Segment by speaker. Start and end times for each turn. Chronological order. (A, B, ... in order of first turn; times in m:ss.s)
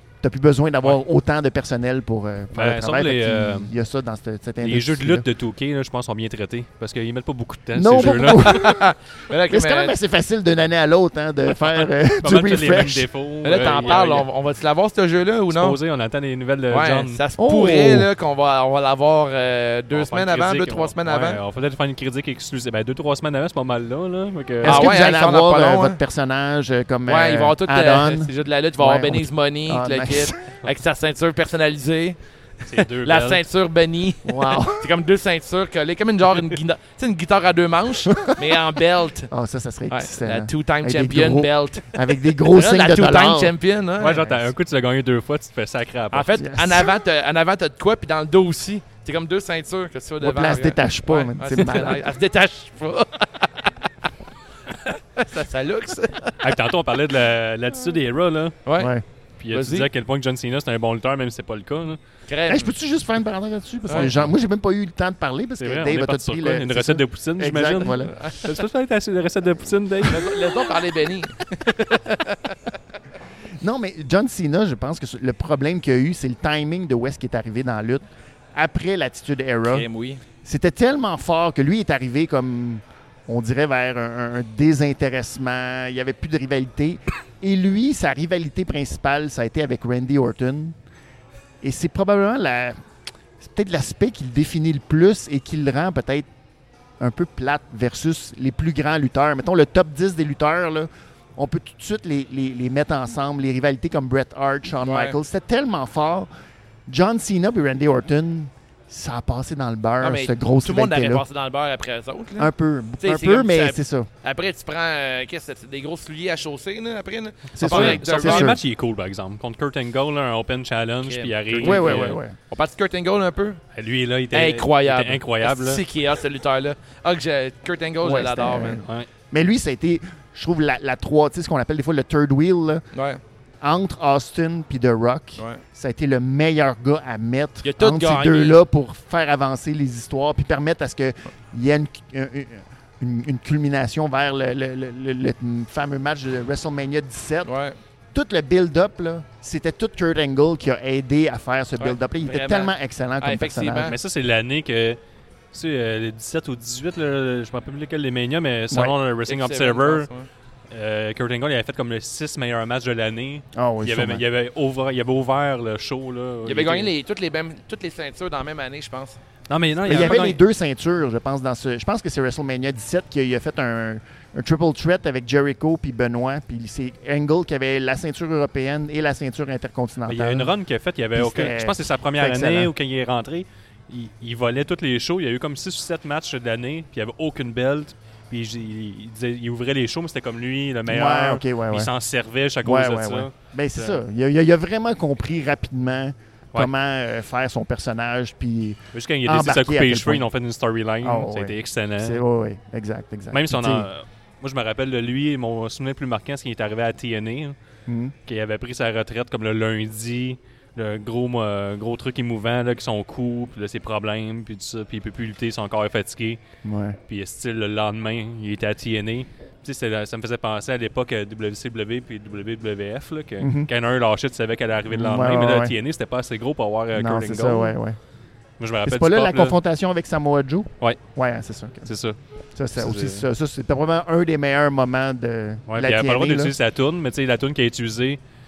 0:00.2-0:05.2 A
0:02.5-0:03.7 B
0:04.6-0:08.6 B
0:07.7-0:08.9 A
0:08.3-0:09.9 C
0:09.5-0:13.1 A
0:12.2-0:14.2 B
0:13.4-0:15.8 C
0:15.5-0:17.2 B
0:16.7-0:21.4 C
0:17.4-0:18.1 A
0:19.9-0:24.9 B
0:24.6-0:30.5 A
0:24.6-0:26.0 C
0:27.1-0:32.2 C
0:32.6-0:33.4 B
0:32.7-0:39.3 C
0:34.2-0:34.9 A
0:38.1-0:38.4 A
0:39.3-0:43.5 A
0:39.9-0:44.3 C
0:44.0-0:46.3 B
0:44.0-0:44.4 A
0:46.1-0:53.9 C
0:46.4-0:46.9 A
0:50.2-0:52.0 A
0:54.7-0:56.5 C
0:56.4-0:58.6 B
0:58.6-0:58.9 C
0:58.8-0:59.0 A
0:59.4-1:02.0 B
0:59.5-0:59.9 C
1:02.3-1:02.7 C
1:02.5-1:08.1 A
1:04.0-1:04.2 B
1:05.6-1:10.4 B
1:08.0-1:08.4 C
1:10.1-1:12.6 C
1:13.6-1:18.0 A
1:18.5-1:19.9 A
1:19.6-1:20.2 C
1:20.4-1:30.8 A
1:31.6-1:32.8 A
1:33.4-1:36.3 A
1:37.0-1:46.3 A
1:44.8-1:45.2 C
1:46.9-1:51.2 A
1:50.0-1:58.5 C
1:52.4-1:54.1 A
1:57.5-1:58.6 A
1:57.6-2:02.2 B
2:01.0-2:03.6 C
2:01.6-2:02.4 A
2:03.7-2:05.8 B
2:04.3-2:08.8 C
2:08.0-2:12.8 A
2:08.8-2:09.1 B
2:12.9-2:13.2 C
2:13.6-2:27.5 A
2:15.4-2:15.6 C
2:17.6-2:18.6 C
2:27.4-2:27.8 C
2:28.1-2:34.0 A
2:31.8-2:34.0 C
2:33.8-2:35.0 B
2:35.5-2:40.1 B
2:38.7-2:39.0 A
2:39.2-2:40.3 C
2:40.7-2:46.9 B
2:43.5-2:44.2 A
2:46.4-2:49.2 C
2:49.5-2:50.4 B
2:49.8-3:00.5 A
3:00.1-3:14.0 B
3:01.1-3:02.7 A
3:10.9-3:11.9 A
3:12.6-3:20.2 A
3:18.9-3:22.2 B
3:21.0-3:23.9 A
3:23.3-3:27.6 B
3:27.9-3:28.1 A
3:28.2-3:36.4 B
3:36.6-3:37.0 A
3:37.1-3:47.8 B
3:43.4-3:43.7 A
3:44.9-3:45.7 A
3:46.9-3:48.0 A
3:48.6-3:49.6 B
3:48.8-3:51.9 A
3:51.8-3:52.2 B
3:52.6-3:56.5 A
3:52.7-3:53.2 B
3:55.7-3:58.2 B